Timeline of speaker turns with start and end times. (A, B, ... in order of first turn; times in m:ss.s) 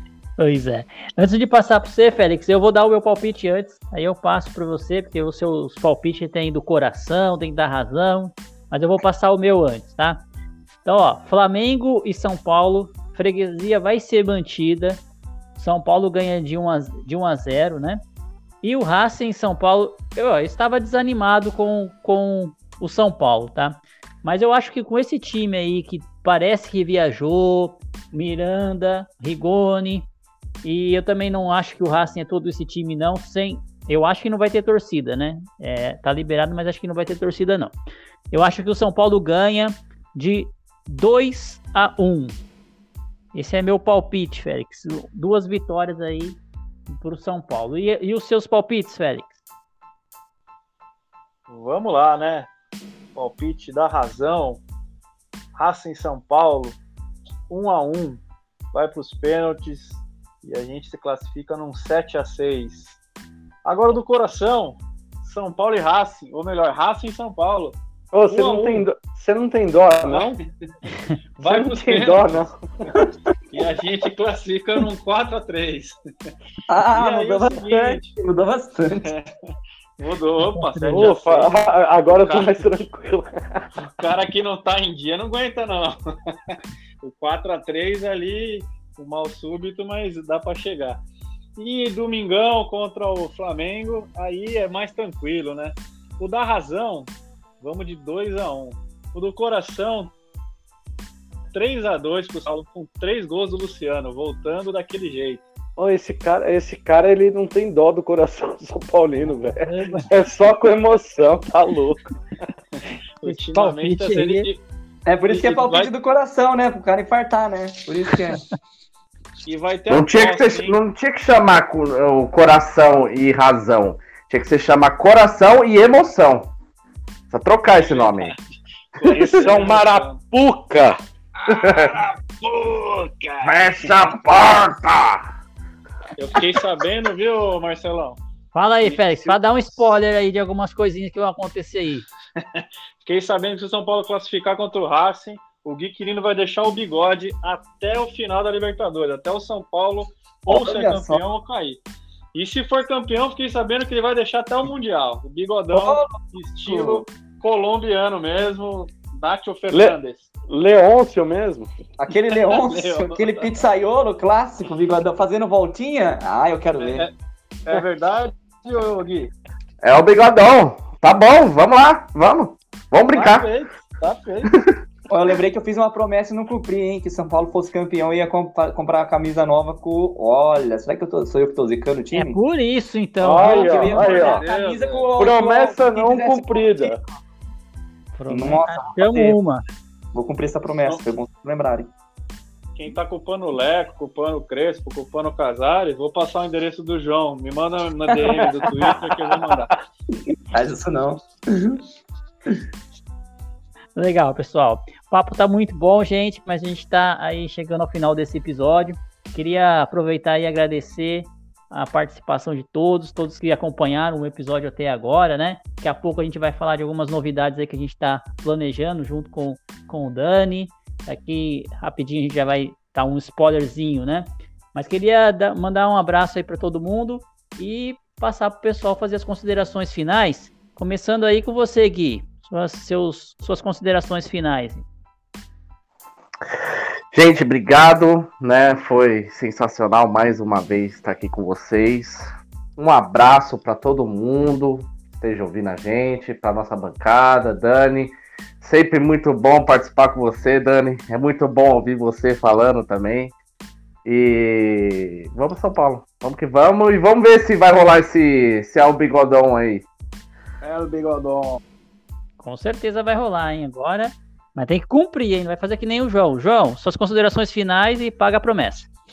0:00.4-0:10.2 A
0:10.8-0:15.0 A
0:15.6-0:18.0 A
0:18.6-0:30.1 A
0:30.6-0:37.7 A
0:38.3-0:42.4 A
0:43.3-0:49.4 A
0:51.5-0:52.5 B
0:53.1-0:54.6 B
0:55.5-0:56.8 B
0:57.5-1:03.0 B
1:03.6-1:07.8 B
1:08.1-1:10.3 C
1:08.3-1:08.8 B
1:10.0-1:10.5 B
1:11.4-1:12.4 B
1:11.4-1:12.9 C
1:13.5-1:16.0 B
1:16.7-1:19.1 D
1:16.9-1:18.1 B
1:19.0-1:19.3 B
1:20.0-1:21.5 B
1:20.5-1:21.1 A
1:20.9-1:23.7 C
1:22.1-1:22.7 B
1:23.8-1:31.0 B
1:31.6-1:40.1 B
1:41.5-1:45.5 B
1:45.8-1:52.1 C
1:49.6-1:50.1 A
1:52.8-1:54.6 B
1:53.2-1:54.5 A
1:55.0-1:58.4 D
1:55.2-1:55.9 B
1:59.4-2:00.8 B
1:59.9-2:06.5 E
2:07.3-2:08.3 E
2:07.8-2:08.4 B
2:09.0-2:10.2 B
2:09.1-2:11.0 C
2:11.4-2:13.6 B
2:11.5-2:11.9 E
2:13.4-2:15.3 E
2:16.2-2:18.2 B
2:18.5-2:22.0 A
2:18.8-2:19.4 B
2:22.4-2:31.8 B
2:30.5-2:31.2 D
2:32.3-2:40.3 B
2:35.7-2:37.0 D
2:39.7-2:41.7 C
2:42.0-2:47.1 D
2:42.3-2:43.5 B
2:46.8-2:47.1 B
2:47.6-2:49.3 B
2:49.8-2:53.5 E
2:53.1-2:54.5 B
2:55.1-3:02.4 D
3:02.1-3:04.1 A
3:03.2-3:04.4 C
3:03.4-3:07.0 D
3:03.9-3:05.1 B
3:05.2-3:07.0 C
3:08.1-3:09.6 A
3:08.3-3:09.4 D
3:10.1-3:11.9 D
3:12.7-3:19.7 B
3:18.1-3:18.5 D
3:18.4-3:19.6 C
3:20.3-3:21.8 D
3:24.0-3:54.8 A
3:57.1-4:13.3 E
4:14.0-4:19.8 E
4:20.6-4:21.6 B
4:22.4-4:28.9 A